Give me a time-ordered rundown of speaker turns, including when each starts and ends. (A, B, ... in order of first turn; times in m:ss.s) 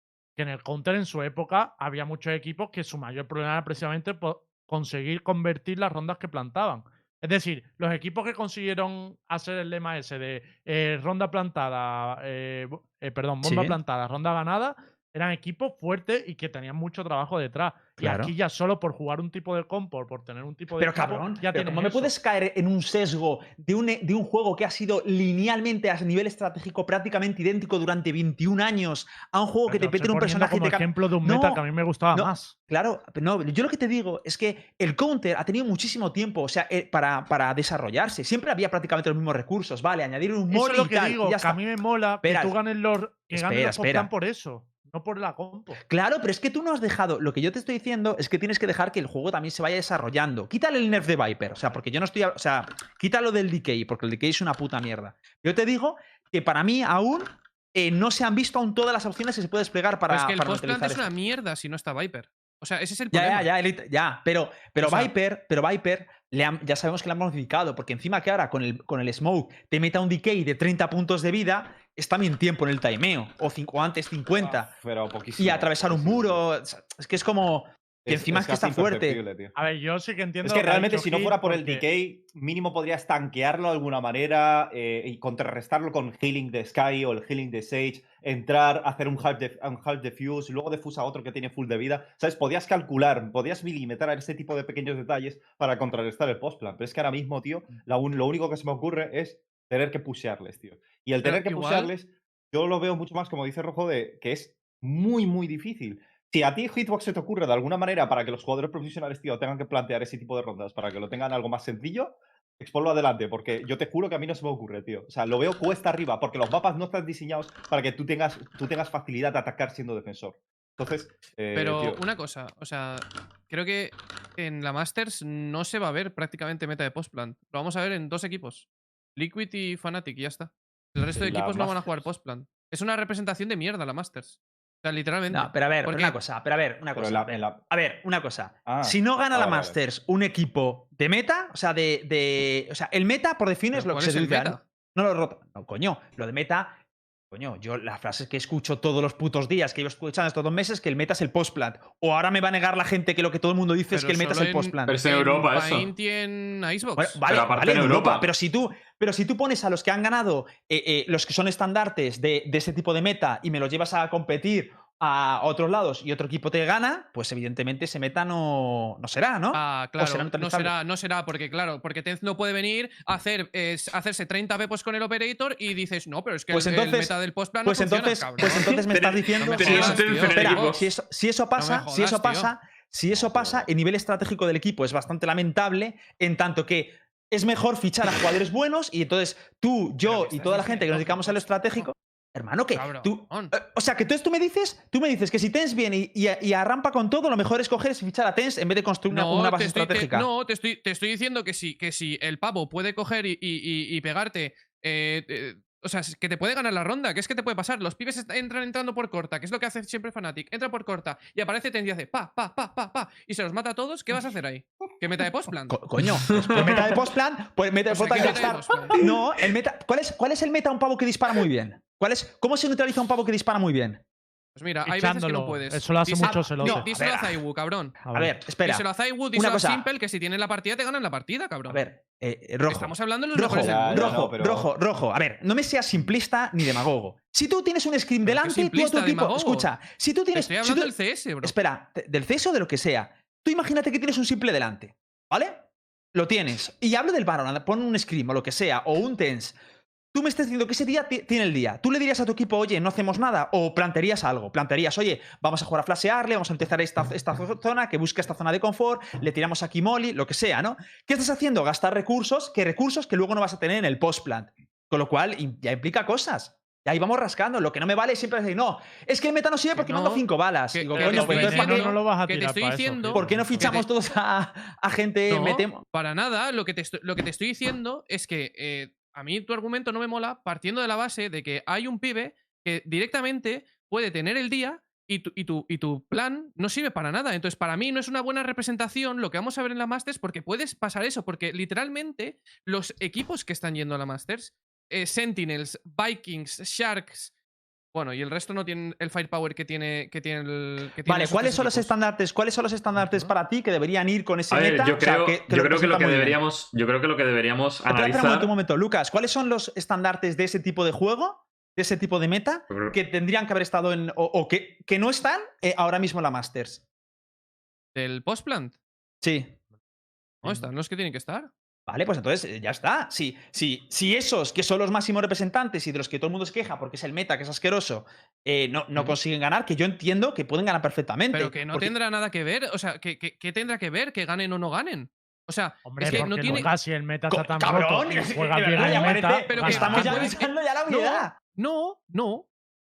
0:00.4-0:22.1 A
0:13.4-0:13.8 B
0:18.0-0:18.3 B
0:20.8-0:41.6 B
0:29.7-0:32.5 A
0:40.5-0:45.8 A
0:42.2-0:42.6 B
0:43.3-0:44.1 B
0:45.8-1:01.1 B
1:00.1-1:03.5 C
1:03.1-1:14.7 B
1:04.8-1:05.1 C
1:14.4-1:16.4 D
1:15.4-1:19.2 B
1:18.0-1:19.5 D
1:19.6-1:21.8 A
1:20.4-2:02.0 D
1:41.2-1:41.9 C
2:01.5-2:16.2 C
2:11.1-2:11.8 D
2:15.3-2:26.8 B
2:17.0-2:17.6 D
2:18.7-2:19.8 D
2:23.7-2:24.6 C
2:27.3-2:35.0 B
2:33.9-2:37.2 C
2:34.9-2:35.9 E
2:37.0-2:50.8 B
2:37.2-2:38.3 E
2:49.5-2:58.9 C
2:56.5-3:20.3 B
2:58.9-3:00.9 E
2:59.4-3:00.7 C
3:01.6-3:02.5 C
3:03.1-3:03.7 D
3:10.0-3:11.9 C
3:12.8-3:13.5 C
3:19.1-3:35.9 C
3:35.7-3:44.0 B
3:36.2-3:37.0 E
3:37.9-3:39.0 C
3:44.6-3:48.0 C
3:44.9-3:46.9 A
3:46.2-3:47.4 B
3:48.1-3:48.3 A
3:48.1-3:49.9 B
3:48.6-3:51.8 C
3:51.7-4:09.6 B
3:52.7-3:54.2 C
3:53.6-3:54.7 D
3:58.2-3:59.7 C
4:00.3-4:01.6 C
4:10.1-4:31.9 B
4:29.8-4:33.9 C
4:31.0-4:33.8 A
4:33.1-4:35.8 B
4:35.3-4:57.3 C
4:57.9-5:01.9 C
5:01.0-5:06.4 B
5:03.0-5:03.3 A
5:04.5-5:08.5 E
5:07.9-5:16.8 B
5:12.7-5:13.0 E
5:18.0-5:18.8 C
5:19.2-5:19.6 B
5:20.4-5:21.5 C
5:21.9-5:31.9 B
5:31.3-5:36.7 C
5:35.9-5:40.3 A
5:36.0-5:36.7 B
5:37.3-5:41.3 B
5:38.8-5:42.5 C